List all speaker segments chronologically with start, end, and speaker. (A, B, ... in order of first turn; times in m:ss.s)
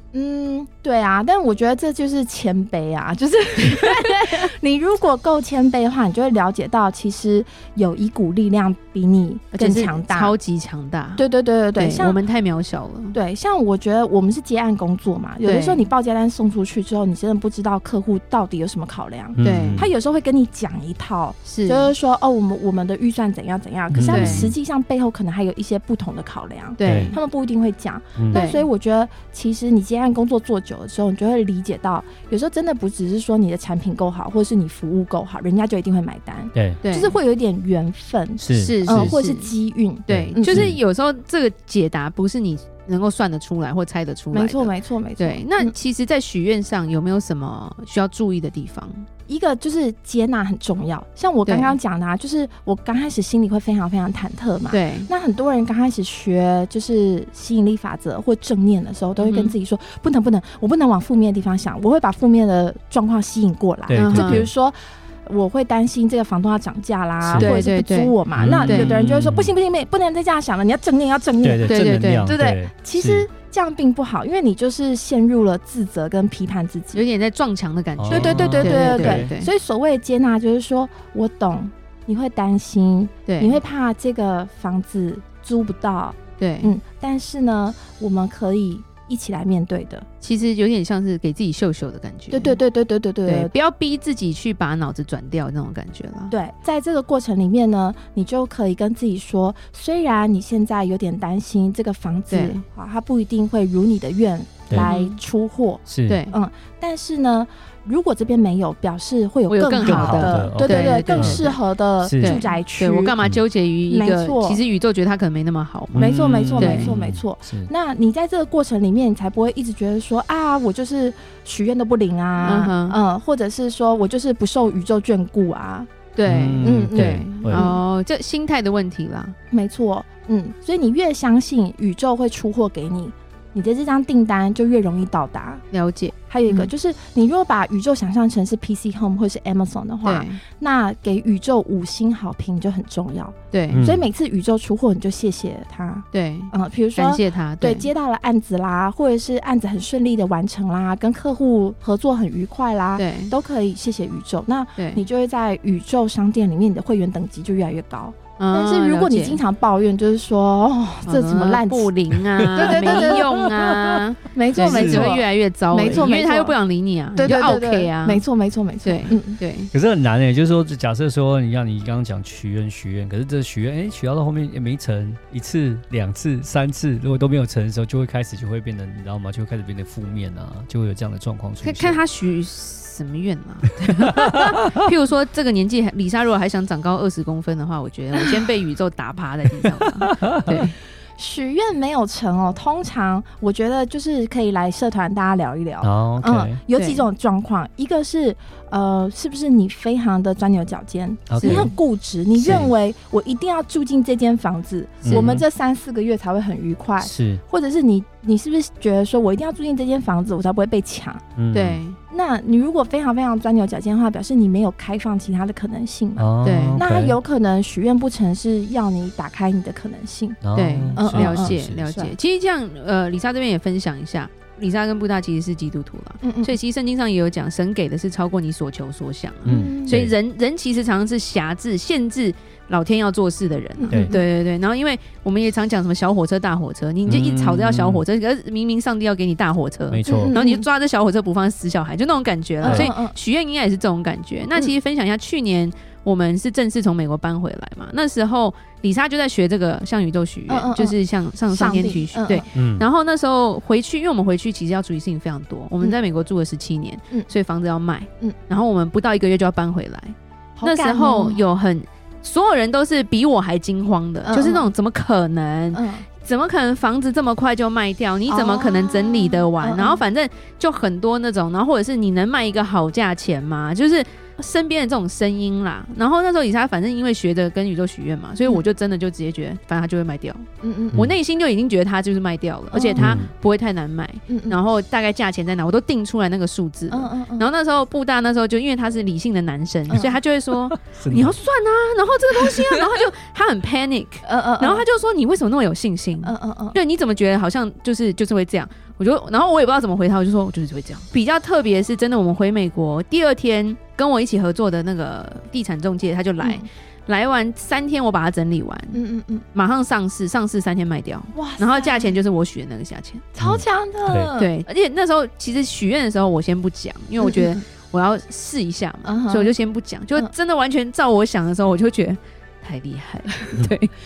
0:00.1-0:10.3 A
0:09.5-0:11.2 B
0:11.2-0:12.2 A
0:11.8-0:13.2 B
0:13.1-0:40.7 A
0:15.4-0:15.8 B
0:19.3-0:19.9 C
0:19.4-0:19.9 B
0:21.4-0:21.9 B
0:23.9-0:24.5 C
0:24.0-0:24.5 B
0:26.8-0:27.2 B
0:26.8-0:27.1 C
0:28.3-0:28.6 B
0:36.5-0:36.8 C
0:36.8-0:37.2 B
0:38.4-0:39.1 C
0:38.6-0:39.5 B
0:40.1-0:49.0 B
0:40.1-0:40.8 C
0:44.3-0:45.7 A
0:49.3-1:17.0 A
0:51.4-0:51.7 B
0:54.7-0:55.1 B
0:59.2-0:59.5 B
1:03.9-1:04.5 C
1:03.9-1:04.4 B
1:07.2-1:07.5 C
1:07.4-1:09.0 B
1:08.4-1:09.5 C
1:11.4-1:13.3 C
1:11.6-1:12.3 B
1:16.9-1:19.5 B
1:18.0-1:19.3 C
1:18.1-1:30.0 A
1:23.2-1:23.6 B
1:26.4-1:26.7 B
1:30.2-1:32.6 B
1:32.3-1:33.5 A
1:33.2-1:36.3 B
1:36.3-1:53.2 A
1:42.3-1:42.6 B
1:44.8-1:45.2 B
1:45.9-1:46.2 C
1:46.1-1:46.4 B
1:49.5-1:51.6 B
1:49.8-1:51.4 C
1:52.0-1:52.4 C
1:52.2-1:56.9 B
1:53.9-1:54.6 A
1:55.9-1:57.7 C
1:55.9-2:05.9 A
2:02.4-2:03.0 B
2:06.2-2:09.3 B
2:06.2-2:07.7 C
2:06.6-2:07.8 A
2:09.5-2:15.6 A
2:15.7-2:16.7 B
2:16.3-2:41.9 A
2:20.0-2:20.4 B
2:23.5-2:23.8 B
2:23.7-2:24.1 C
2:26.1-2:27.9 B
2:33.0-2:33.3 B
2:38.4-2:39.4 B
2:41.0-2:48.2 B
2:42.5-2:44.0 C
2:42.6-2:43.3 A
2:44.3-2:46.6 A
2:44.6-2:45.2 C
2:47.2-2:49.4 A
2:48.8-2:49.7 B
2:49.7-3:02.0 C
3:01.6-3:10.7 B
3:04.0-3:04.5 C
3:10.2-3:10.5 C
3:11.2-3:31.2 A
3:15.8-3:16.6 C
3:16.7-3:17.0 B
3:21.3-3:21.7 C
3:21.4-3:21.7 B
3:22.3-3:22.7 C
3:25.0-3:25.4 C
3:25.1-3:25.4 B
3:27.0-3:27.4 C
3:31.4-3:31.8 C
3:31.5-3:32.0 B
3:32.1-3:40.4 A
3:36.2-3:37.2 C
3:36.4-3:36.8 B
3:40.4-3:41.9 C
3:40.5-5:09.0 B
3:41.0-3:42.1 A
3:46.2-3:46.6 A
3:49.4-3:50.0 A
3:49.4-3:50.1 C
3:53.8-3:54.2 A
3:57.0-3:58.0 C
3:59.9-4:00.3 C
4:00.0-4:00.6 A
4:02.6-4:03.2 A
4:02.6-4:02.9 C
4:10.5-4:12.4 A
4:12.5-4:12.8 C
4:20.6-4:21.4 A
4:24.2-4:24.7 A
4:25.7-4:26.1 A
4:28.3-4:30.0 A
4:40.6-4:41.0 A
4:42.7-4:43.1 A
4:43.0-4:43.3 C
4:44.3-4:44.6 A
4:46.9-4:47.5 A
4:49.9-4:50.2 A
4:50.7-4:51.4 C
4:54.2-4:54.8 A
4:56.2-4:56.8 A
5:06.4-5:06.7 A
5:08.9-5:09.4 A
5:09.5-5:13.2 B
5:11.3-5:12.1 A
5:13.3-5:14.5 A
5:13.4-5:14.3 C
5:14.4-5:23.9 B
5:17.2-5:17.6 A
5:19.0-5:19.5 A